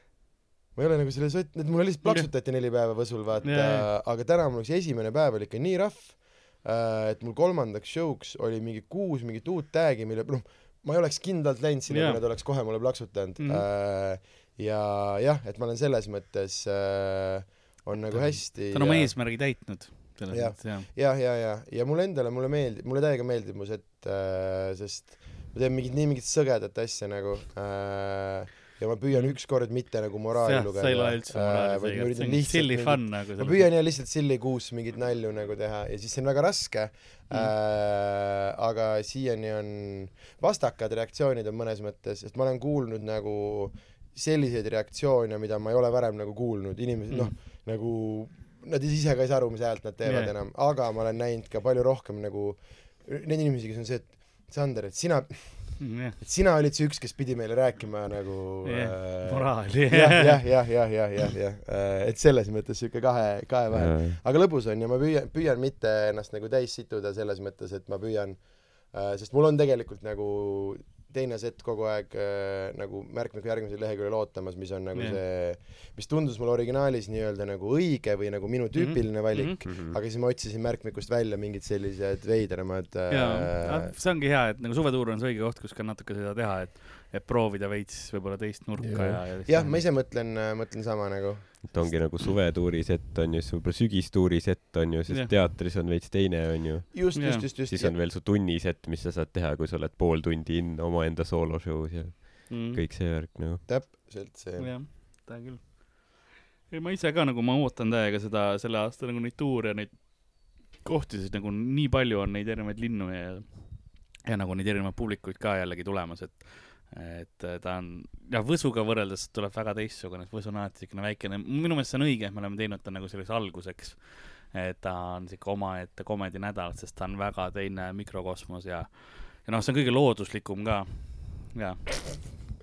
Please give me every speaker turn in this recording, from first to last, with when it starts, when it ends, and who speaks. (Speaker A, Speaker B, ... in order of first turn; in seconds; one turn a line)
Speaker A: 0.7-19.1
Speaker B: 3.4-3.9
Speaker B: 11.9-12.2
Speaker B: 13.4-13.6
Speaker B: 18.1-20.9
Speaker A: 20.3-83.9
Speaker B: 29.1-29.4
Speaker B: 30.3-33.7
Speaker B: 50.0-50.3
Speaker B: 55.8-56.2
Speaker B: 58.6-60.6
Speaker C: 63.7-64.2
Speaker B: 74.9-75.2
Speaker B: 78.7-79.6
Speaker C: 79.6-80.0
Speaker B: 83.1-89.8
Speaker A: 88.8-91.9
Speaker C: 88.9-89.2
Speaker C: 91.6-103.7
Speaker B: 95.1-95.3
Speaker A: 96.9-98.0
Speaker B: 97.1-97.5
Speaker B: 102.5-102.8
Speaker A: 103.7-104.8
Speaker B: 104.6-131.8